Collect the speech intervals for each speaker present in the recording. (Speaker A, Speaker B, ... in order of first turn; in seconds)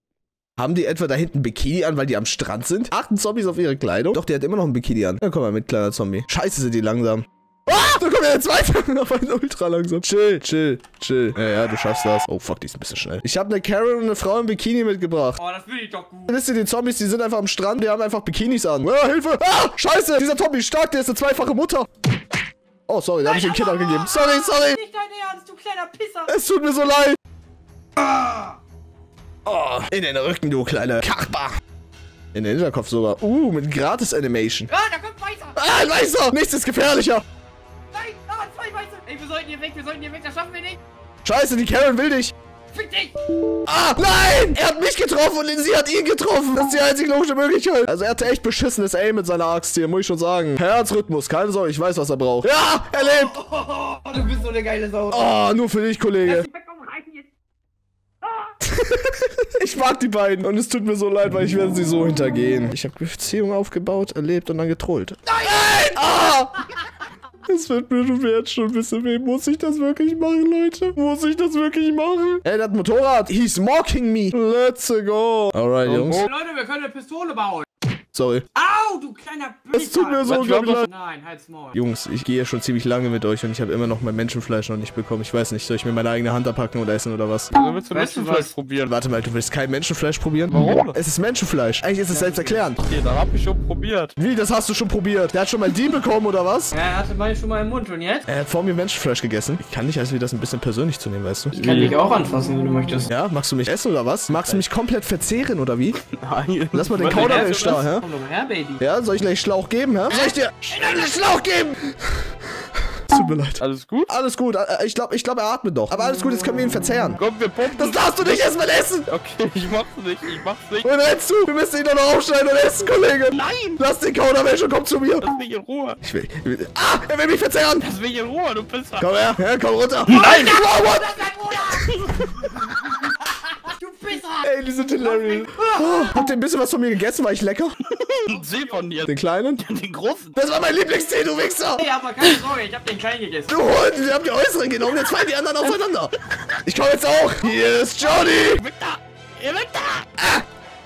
Speaker A: 0.6-15.4, 16.3-21.9, 22.9-24.8, 26.3-27.2, 29.5-31.5, 32.3-34.7, 35.5-37.2, 41.2-42.3, 43.6-53.5, 55.1-56.5, 58.6-66.7, 67.5-76.3, 78.1-78.5, 79.7-80.9, 81.7-87.5, 88.9-92.8, 94.2-96.8, 98.3-101.6, 103.1-106.0, 106.7-108.1, 108.8-112.3, 112.9-119.1, 120.8-125.3, 126.0-127.9, 129.0-131.9, 134.4-137.8, 139.1-139.6, 140.4-141.9, 143.5-146.1, 146.6-148.6, 150.2-150.4
Speaker B: 15.4-16.4, 23.2-26.3, 28.0-28.6, 34.7-35.6, 37.9-40.8, 42.7-43.2, 53.2-55.3, 56.2-57.3, 58.2-58.5, 65.4-65.8, 76.3-77.7, 78.5-81.8, 87.9-88.5, 92.1-92.7, 96.7-98.3, 101.5-103.1, 107.8-108.8, 110.9-111.1, 130.4-132.0, 133.6-136.2, 138.3-138.9, 141.8-143.5
Speaker C: 75.8-76.3, 80.3-80.8, 87.5-88.9, 90.5-91.0, 92.8-94.1, 101.6-102.0, 106.2-107.8, 113.6-114.1, 117.2-118.5, 119.1-120.9, 123.3-123.7, 125.2-126.0, 127.8-129.1, 130.1-130.6, 138.1-140.4, 148.7-150.1